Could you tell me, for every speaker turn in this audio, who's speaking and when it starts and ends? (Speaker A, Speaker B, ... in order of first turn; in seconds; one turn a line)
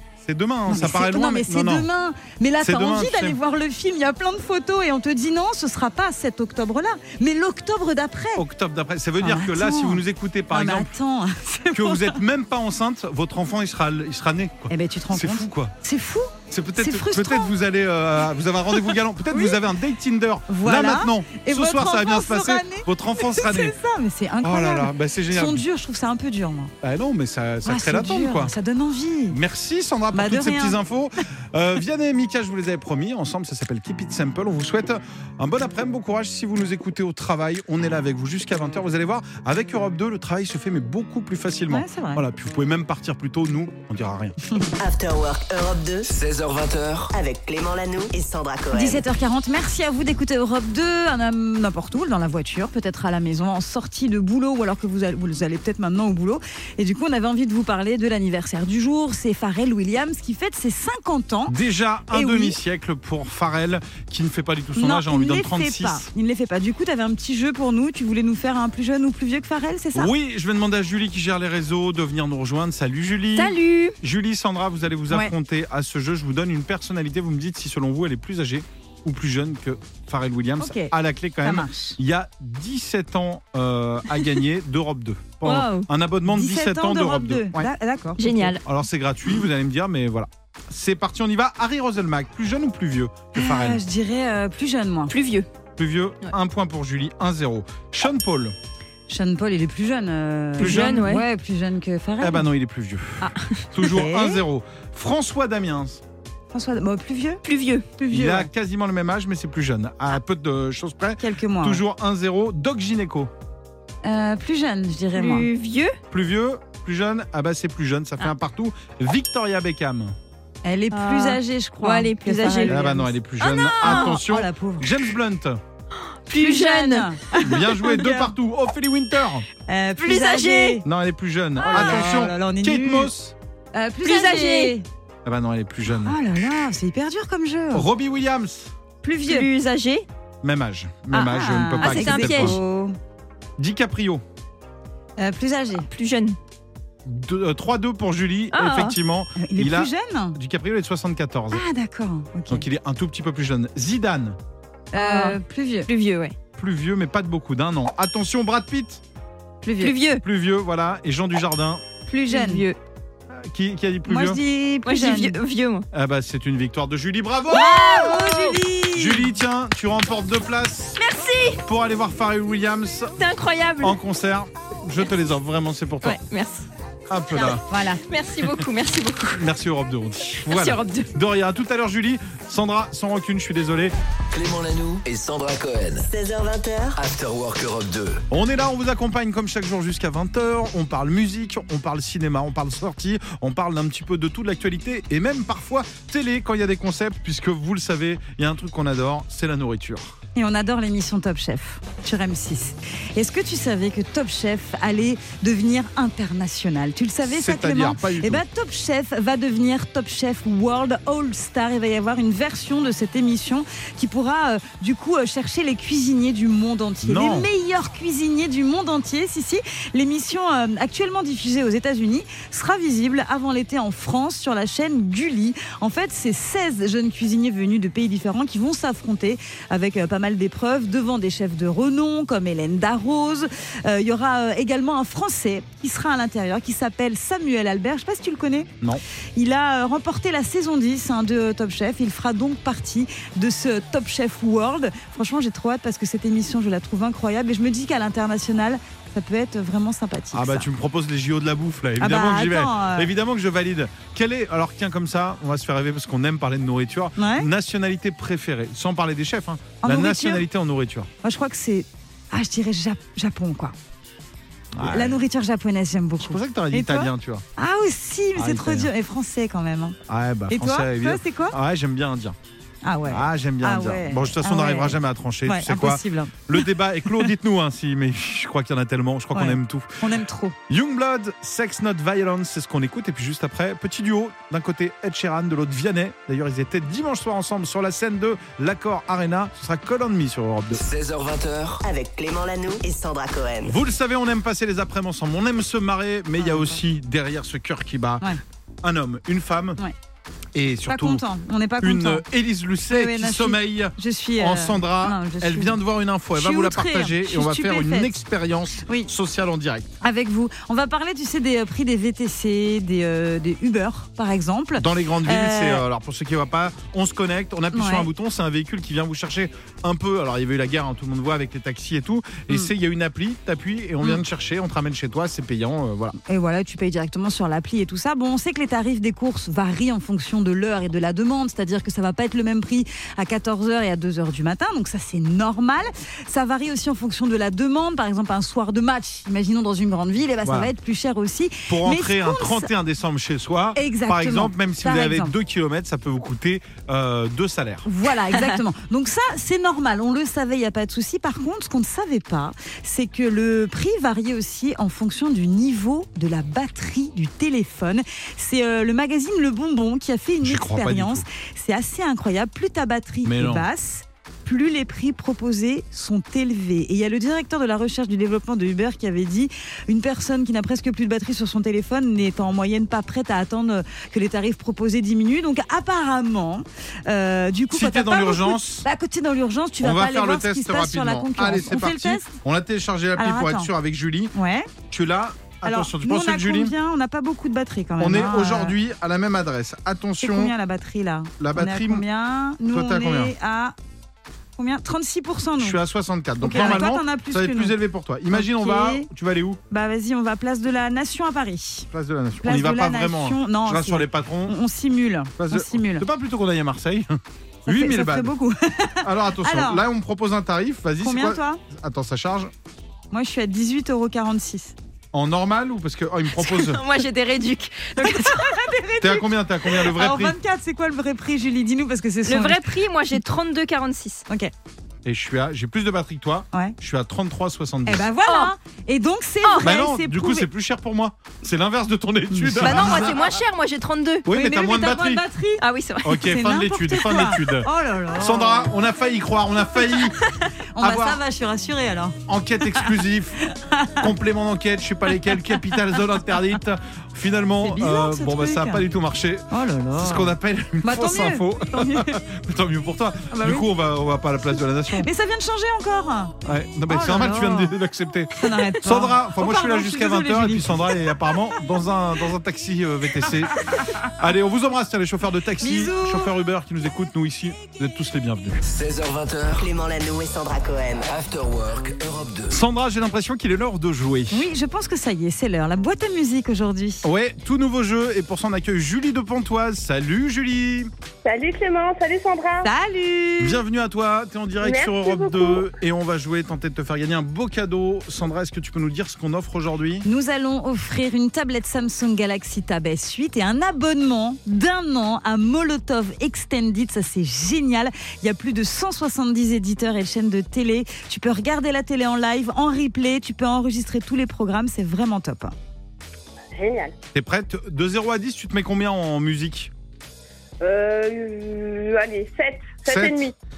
Speaker A: 0.2-1.9
Speaker B: 0.7-8.4
Speaker A: 2.6-3.4
Speaker A: 8.3-10.9
Speaker B: 9.2-12.2
Speaker A: 11.7-15.7
Speaker B: 14.7-17.5
Speaker A: 16.5-23.8
Speaker B: 18.7-19.6
Speaker B: 20.5-26.7
Speaker A: 24.4-25.6
Speaker A: 26.8-28.5
Speaker B: 27.6-29.4
Speaker A: 29.3-44.4
Speaker B: 30.1-30.8
Speaker B: 41.7-42.2
Speaker C: 44.8-46.1
Speaker D: 46.1-47.1
Speaker C: 47.1-49.0
Speaker B: 48.7-61.5
Speaker A: 61.5-66.1
Speaker B: 62.1-62.6
Speaker B: 64.7-70.1
Speaker A: 69.9-87.7
Speaker E: 73.3-74.0
Speaker B: 80.6-82.0
Speaker E: 85.4-85.9
Speaker B: 86.3-88.5
Speaker E: 88.2-88.6
Speaker A: 88.6-93.8
Speaker B: 93.3-95.1
Speaker E: 95.1-95.5
Speaker A: 95.8-98.5
Speaker B: 99.1-102.5
Speaker E: 100.6-101.2
Speaker A: 100.6-101.0
Speaker A: 102.2-106.0
Speaker B: 103.2-104.4
Speaker B: 106.5-107.4
Speaker E: 107.4-108.0
Speaker B: 108.0-108.5
Speaker A: 108.1-113.3
Speaker B: 111.2-111.8
Speaker B: 114.0-115.5
Speaker E: 115.1-116.0
Speaker A: 116.1-120.2
Speaker B: 120.6-124.9
Speaker E: 120.9-122.8
Speaker A: 122.7-125.6
Speaker E: 123.4-124.2
Speaker E: 126.3-127.2
Speaker B: 126.3-128.3
Speaker A: 127.4-129.4
Speaker B: 129.7-130.8
Speaker E: 130.0-130.8
Speaker A: 130.8-133.3
Speaker B: 131.6-133.1
Speaker E: 131.7-132.1
Speaker B: 133.7-134.8
Speaker E: 134.0-134.8
Speaker A: 135.2-136.2
Speaker B: 135.9-137.9
Speaker A: 137.7-138.7
Speaker B: 139.0-139.5
Speaker E: 139.2-140.1
Speaker A: 140.4-142.6
Speaker B: 141.1-143.0
Speaker E: 141.8-142.6
Speaker A: 143.6-144.2
Speaker B: 145.2-145.9
Speaker E: 145.8-146.3
Speaker A: 147.0-151.6
Speaker E: 148.5-149.0
Speaker B: 149.4-150.4
Speaker B: 151.5-152.6
Speaker A: 152.5-154.4
Speaker B: 154.9-155.9
Speaker E: 154.9-156.3
Speaker A: 156.6-159.0
Speaker B: 159.6-160.0
Speaker E: 159.8-160.2
Speaker A: 160.2-161.8
Speaker B: 162.1-162.7
Speaker E: 162.3-162.8
Speaker A: 163.3-164.4
Speaker B: 164.1-165.4
Speaker E: 164.8-165.8
Speaker A: 165.9-167.8
Speaker B: 167.5-169.3
Speaker E: 167.5-168.6
Speaker A: 168.9-171.0
Speaker E: 171.0-171.6
Speaker A: 171.6-173.1
Speaker E: 173.2-174.0
Speaker A: 173.8-176.2
Speaker E: 176.0-176.7
Speaker A: 177.1-177.6
Speaker E: 177.3-179.4
Speaker B: 177.7-178.0
Speaker A: 179.4-183.9
Speaker E: 180.5-181.1
Speaker D: 184.3-186.1
Speaker C: 186.1-187.0
Speaker D: 187.0-188.2
Speaker A: 188.3-200.2
Speaker B: 200.3-238.7
Speaker A: 207.2-208.4
Speaker A: 217.0-217.5
Speaker B: 239.3-250.7
Speaker A: 250.3-261.1
Speaker B: 252.0-253.1
Speaker B: 257.2-257.5
Speaker B: 259.8-260.4
Speaker B: 261.2-263.7
Speaker A: 264.7-265.2
Speaker B: 264.8-270.0
Speaker A: 266.2-267.4
Speaker A: 268.4-268.9
Speaker A: 270.1-272.4
Speaker B: 270.5-271.6
Speaker B: 272.8-276.6
Speaker A: 273.1-279.9
Speaker B: 279.3-280.6
Speaker A: 280.7-290.8
Speaker D: 290.7-291.8
Speaker C: 291.8-293.7
Speaker A: 293.6-298.3
Speaker B: 296.4-296.8
Speaker A: 298.8-299.8
Speaker A: 300.5-301.2
Speaker B: 300.9-302.2
Speaker A: 301.8-309.9
Speaker B: 302.9-305.8
Speaker B: 306.3-308.2
Speaker B: 310.0-315.8
Speaker A: 314.8-326.1
Speaker B: 317.7-318.1
Speaker B: 326.2-342.7
Speaker A: 340.4-340.7
Speaker A: 341.7-347.9
Speaker B: 343.7-345.3
Speaker B: 347.8-382.3
Speaker A: 360.4-361.2
Speaker A: 363.2-363.7
Speaker A: 377.7-378.8
Speaker A: 379.8-384.3
Speaker B: 383.1-383.7
Speaker B: 384.3-384.7
Speaker A: 384.9-386.7
Speaker B: 385.6-388.8
Speaker A: 388.0-390.5
Speaker B: 390.2-393.7
Speaker A: 391.4-392.0
Speaker A: 392.7-393.3
Speaker B: 394.6-395.8
Speaker A: 395.6-399.6
Speaker B: 396.4-397.7
Speaker B: 398.3-399.1
Speaker B: 399.7-401.9
Speaker A: 401.9-404.6
Speaker B: 402.4-406.1
Speaker A: 405.4-408.3
Speaker B: 407.6-409.8
Speaker A: 409.0-412.5
Speaker B: 411.0-411.6
Speaker B: 413.1-414.7
Speaker A: 415.1-416.8
Speaker E: 416.3-418.6
Speaker B: 418.0-423.2
Speaker A: 419.0-420.4
Speaker E: 422.2-424.2
Speaker A: 425.0-428.1
Speaker B: 427.9-430.5
Speaker E: 428.2-428.5
Speaker E: 429.4-429.7
Speaker A: 429.6-433.3
Speaker B: 432.3-433.1
Speaker E: 432.6-434.9
Speaker A: 434.2-435.2
Speaker B: 434.3-435.6
Speaker E: 435.6-436.2
Speaker A: 436.0-440.1
Speaker B: 436.2-438.7
Speaker B: 440.7-442.2
Speaker A: 440.8-441.2
Speaker A: 442.3-443.4
Speaker B: 443.4-444.1
Speaker A: 444.0-455.1
Speaker B: 445.4-445.7
Speaker B: 447.6-448.8
Speaker B: 449.5-452.2
Speaker B: 453.3-453.7
Speaker B: 455.0-456.4
Speaker A: 456.4-468.6
Speaker B: 456.9-457.7
Speaker B: 458.4-461.1
Speaker B: 463.5-463.9
Speaker B: 465.6-466.3
Speaker D: 468.6-469.7
Speaker C: 469.6-471.1
Speaker D: 471.1-472.6
Speaker A: 472.5-474.5
Speaker B: 474.3-477.1
Speaker A: 477.0-480.9
Speaker F: 481.2-482.7
Speaker B: 482.6-483.6
Speaker A: 483.4-490.0
Speaker F: 484.6-485.7
Speaker B: 490.0-505.5
Speaker F: 506.5-506.9
Speaker A: 507.1-509.7
Speaker F: 510.6-513.3
Speaker A: 512.9-513.3